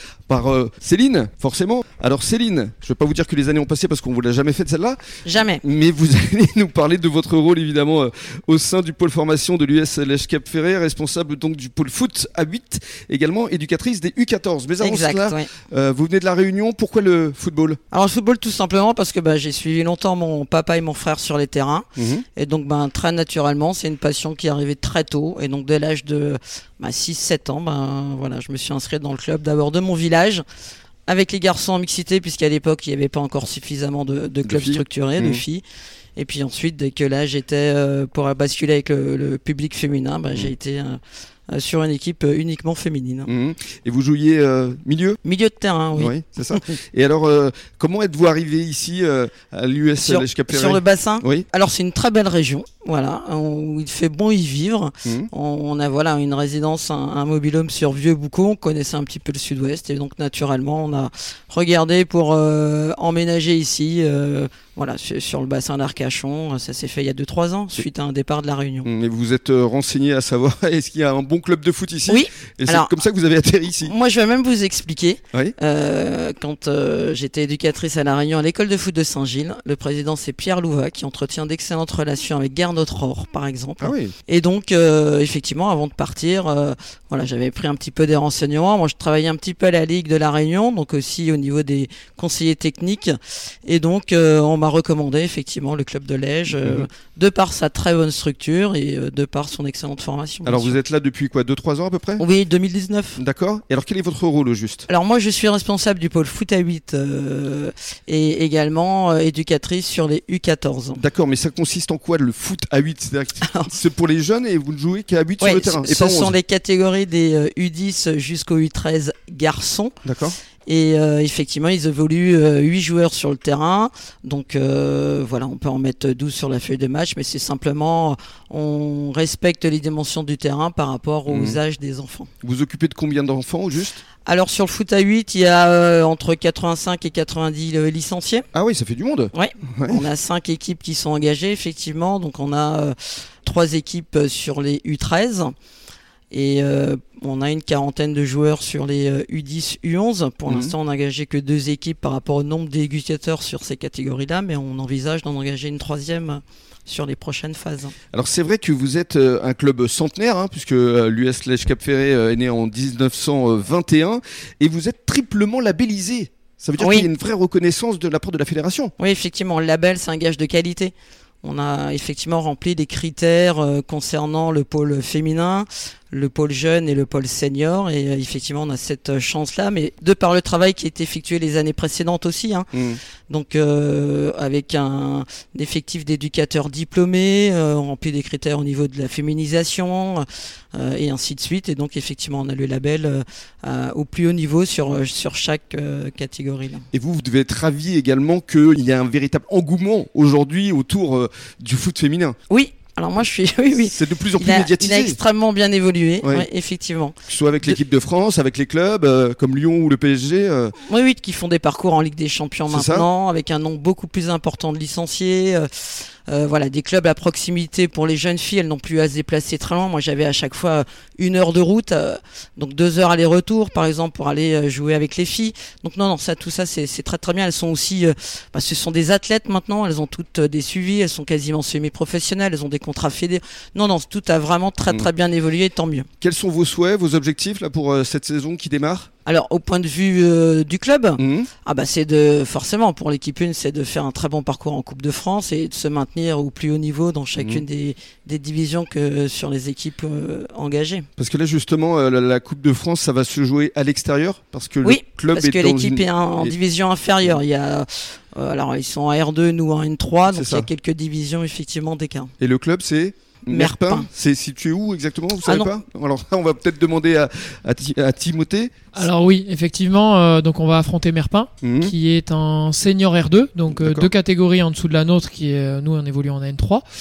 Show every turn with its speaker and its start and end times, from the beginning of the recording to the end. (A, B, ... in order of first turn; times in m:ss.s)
0:00.3-0:17.8 A
0:05.2-0:05.6 B
0:14.8-0:15.5 B
0:17.9-0:30.4 B
0:22.0-0:22.2 A
0:31.1-0:35.6 B
0:34.4-0:35.4 A
0:36.2-0:41.0 B
0:41.5-0:43.3 B
0:43.3-0:45.2 A
0:45.2-0:46.8 B
0:46.0-0:51.5 A
0:50.0-1:08.9 B
1:08.8-1:13.9 A
1:12.1-1:12.9 B
1:13.8-1:40.8 B
1:23.8-1:24.1 A
1:36.6-1:36.9 A
1:40.4-1:42.2 A
1:42.2-1:43.2 B
1:43.2-1:44.9 A
1:44.9-1:51.0 B
1:51.0-1:56.4 A
1:53.4-1:53.7 B
1:55.4-2:00.0 B
2:00.0-2:00.4 A
2:00.7-2:12.3 B
2:11.3-2:11.6 A
2:12.4-2:14.0 A
2:14.3-2:18.5 B
2:18.5-2:20.0 A
2:19.3-2:25.5 B
2:26.3-2:37.9 B
2:30.5-2:30.7 A
2:38.1-2:48.9 A
2:46.8-2:47.1 B
2:49.0-3:02.7 B
3:02.7-3:03.0 A
3:03.3-3:16.9 B
3:16.9-3:22.4 A
3:22.5-3:27.8 B
3:23.8-3:25.2 A
3:27.3-3:30.8 A
3:30.8-3:56.1 B
3:32.7-3:33.1 A
3:56.2-3:59.1 A
3:59.3-4:11.1 B
4:01.2-4:01.5 A
4:07.4-4:07.6 A
4:11.2-4:16.5 A
4:14.8-4:22.3 B
4:20.3-4:20.7 A
4:22.4-4:28.8 A
4:23.5-4:24.1 B
4:25.5-4:25.8 B
4:28.9-4:36.8 C
4:31.6-4:31.9 A
4:33.7-4:34.1 A